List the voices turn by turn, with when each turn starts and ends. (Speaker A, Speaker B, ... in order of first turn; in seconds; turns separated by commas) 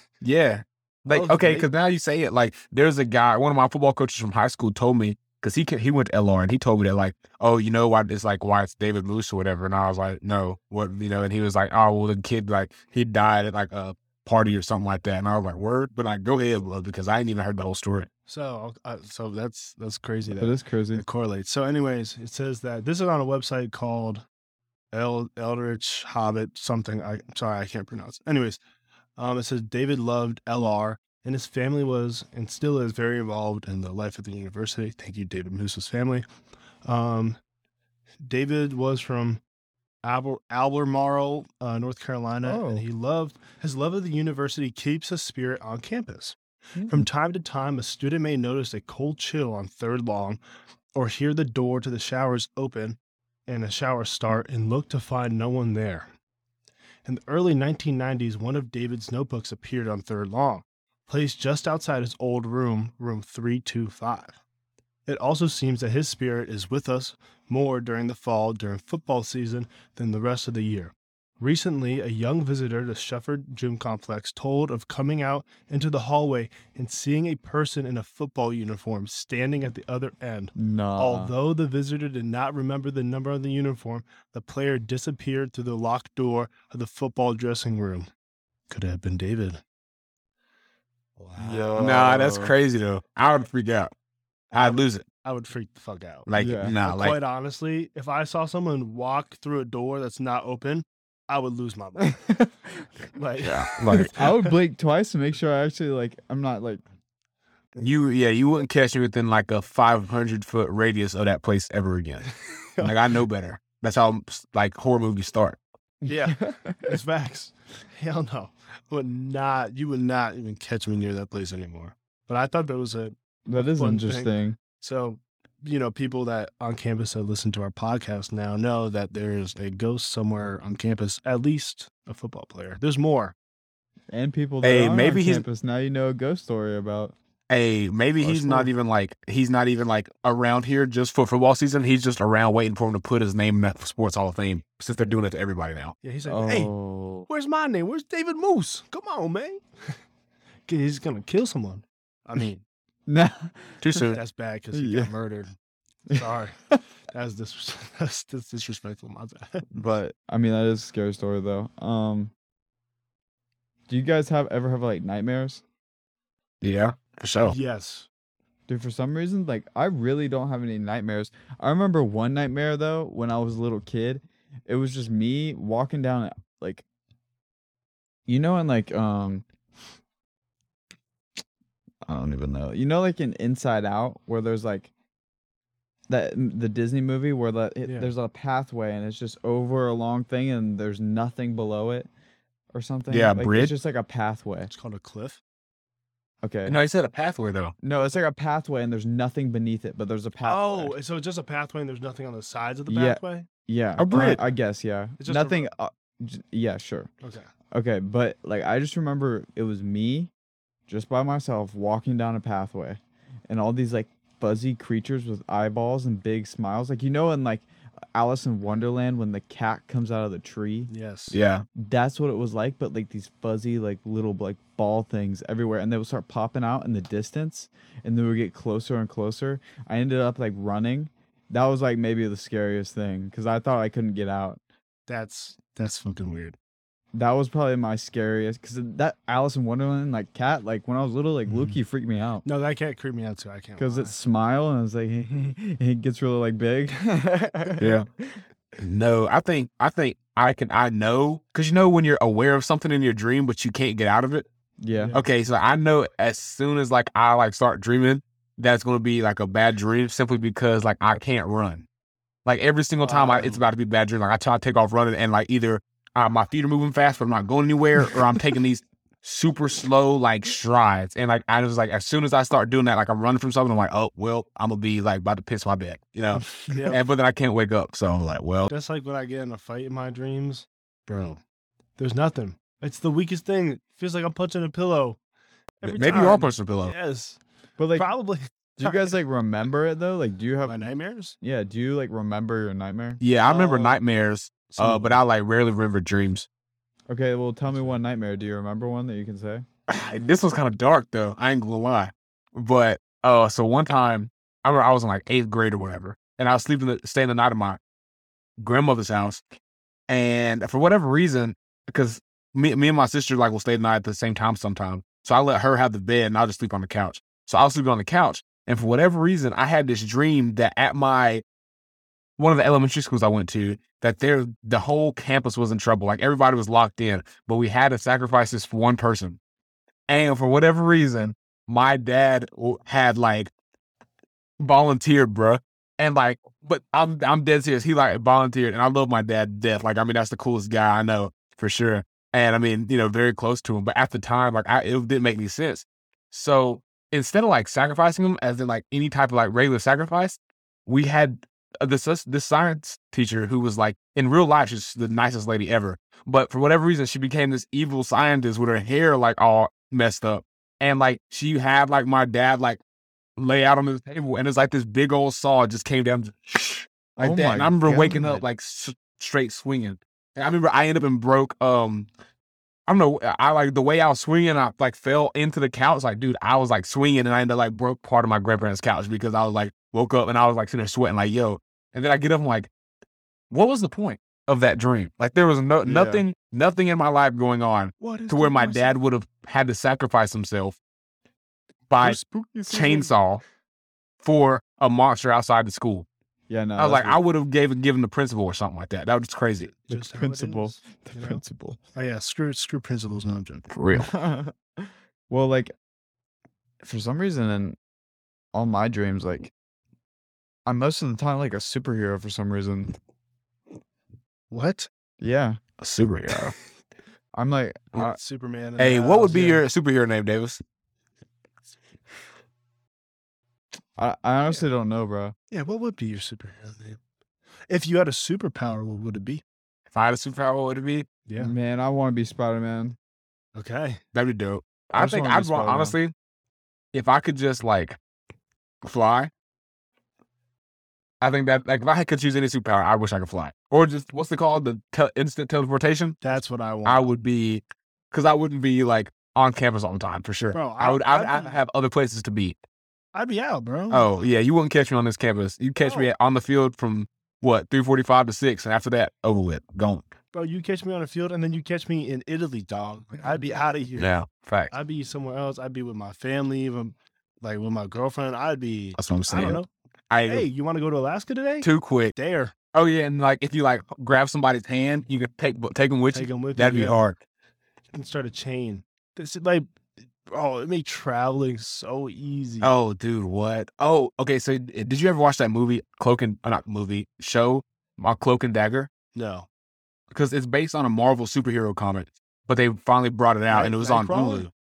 Speaker A: 0.2-18.1, Speaker B: 1.1-1.7, Speaker B: 18.3-24.2, Speaker C: 20.3-21.0, Speaker B: 24.9-28.6, Speaker B: 29.2-36.2, Speaker B: 36.9-37.4, Speaker B: 38.2-39.4, Speaker B: 40.0-46.4, Speaker C: 42.4-42.9, Speaker C: 46.8-47.1, Speaker B: 46.9-50.4, Speaker B: 51.0-56.1, Speaker B: 57.0-64.4, Speaker B: 65.1-88.1, Speaker C: 80.6-81.3, Speaker B: 88.7-89.6, Speaker B: 91.2-92.1, Speaker C: 91.4-92.5, Speaker A: 91.8-93.9, Speaker B: 94.5-102.2, Speaker A: 94.5-95.0, Speaker A: 96.3-97.2, Speaker C: 96.4-96.8, Speaker C: 102.1-102.8, Speaker B: 103.1-104.5, Speaker A: 103.5-104.1, Speaker C: 103.5-106.8, Speaker A: 107.8-115.6, Speaker C: 116.0-117.0, Speaker B: 116.1-133.4, Speaker C: 123.5-124.6, Speaker C: 134.1-137.2, Speaker A: 134.6-135.4, Speaker A: 137.5-146.0, Speaker C: 138.2-138.7, Speaker B: 146.0-146.7, Speaker C: 146.3-147.3, Speaker B: 147.3-149.6, Speaker B: 150.7-152.7, Speaker C: 153.1-154.1, Speaker A: 153.8-154.2, Speaker B: 154.1-155.5, Speaker C: 154.7-155.1, Speaker B: 156.1-159.7, Speaker C: 156.1-156.8, Speaker C: 159.7-162.3, Speaker C: 163.9-165.6, Speaker A: 166.6-167.6, Speaker B: 167.4-168.1, Speaker C: 168.7-176.8, Speaker C: 178.3-179.4, Speaker C: 182.1-184.9, Speaker C: 186.1-192.1, Speaker B: 187.8-188.1, Speaker C: 192.7-194.7, Speaker A: 193.1-193.7, Speaker B: 194.7-195.4, Speaker C: 196.4-196.8, Speaker A: 196.7-197.7, Speaker C: 197.8-200.9, Speaker B: 200.4-203.5, Speaker C: 202.9-207.1, Speaker A: 204.0-204.4, Speaker B: 205.2-205.7, Speaker B: 207.2-207.5, Speaker C: 207.7-210.3, Speaker C: 210.9-220.9, Speaker B: 220.9-221.4, Speaker A: 221.3-221.7, Speaker C: 221.8-234.6, Speaker B: 235.1-236.6, Speaker C: 237.1-242.4, Speaker B: 241.5-241.8, Speaker B: 242.4-244.2, Speaker C: 243.8-248.0, Speaker A: 247.8-248.1, Speaker A: 248.8-254.5, Speaker C: 254.8-255.2, Speaker B: 254.9-255.3, Speaker A: 255.1-261.9, Speaker A: 262.5-278.7, Speaker B: 263.0-263.6, Speaker B: 276.7-277.0, Speaker B: 278.7-281.4, Speaker B: 282.0-285.2, Speaker B: 285.8-287.4, Speaker A: 285.8-286.9, Speaker C: 287.8-288.1, Speaker B: 287.9-289.1, Speaker C: 288.8-290.8, Speaker B: 290.6-291.4, Speaker C: 291.4-293.2, Speaker A: 293.2-296.5, Speaker B: 293.5-294.0, Speaker B: 294.7-295.2, Speaker C: 297.1-299.7, Speaker B: 297.7-298.0, Speaker A: 299.9-307.8, Speaker A: 308.6-309.4, Speaker A: 310.1-321.4, Speaker A: 322.4-329.4, Speaker A: 330.1-333.5, Speaker A: 334.6-362.8, Speaker A: 363.4-372.1, Speaker C: 367.2-368.4, Speaker A: 372.9-382.7, Speaker A: 383.5-390.8, Speaker C: 385.8-386.2, Speaker B: 388.0-389.0, Speaker A: 391.9-393.4, Speaker C: 392.0-393.1, Speaker A: 394.2-396.1, Speaker C: 396.5-397.2, Speaker A: 396.8-399.8, Speaker B: 399.8-401.4, Speaker C: 399.9-401.8, Speaker B: 401.9-403.7, Speaker A: 403.7-404.1, Speaker C: 403.9-405.7, Speaker C: 406.8-407.8, Speaker C: 408.5-409.5, Speaker C: 410.7-412.9, Speaker B: 414.5-414.9, Speaker C: 415.2-415.6, Speaker A: 415.8-416.6, Speaker C: 417.3-418.2, Speaker B: 418.0-419.6, Speaker A: 418.8-420.6, Speaker C: 424.0-425.4, Speaker B: 425.5-427.0, Speaker B: 427.7-429.4, Speaker A: 429.9-431.1, Speaker B: 431.3-431.5, Speaker C: 431.4-433.0, Speaker B: 433.6-434.0, Speaker A: 434.1-436.1, Speaker C: 435.0-436.0, Speaker A: 436.9-438.0, Speaker A: 438.8-439.3, Speaker A: 441.2-446.2, Speaker B: 446.2-447.1, Speaker A: 446.9-452.6, Speaker B: 450.5-451.6, Speaker B: 453.1-454.2, Speaker A: 453.9-460.0, Speaker B: 455.8-456.1, Speaker B: 460.3-464.1, Speaker A: 464.0-464.7, Speaker B: 464.7-469.7, Speaker A: 469.0-470.5, Speaker B: 470.3-472.6, Speaker A: 471.6-472.1, Speaker A: 472.7-477.2, Speaker B: 476.1-477.0, Speaker B: 477.9-479.7, Speaker B: 480.3-482.7, Speaker A: 482.6-488.9, Speaker B: 489.1-489.5, Speaker A: 490.1-494.5, Speaker B: 493.5-494.5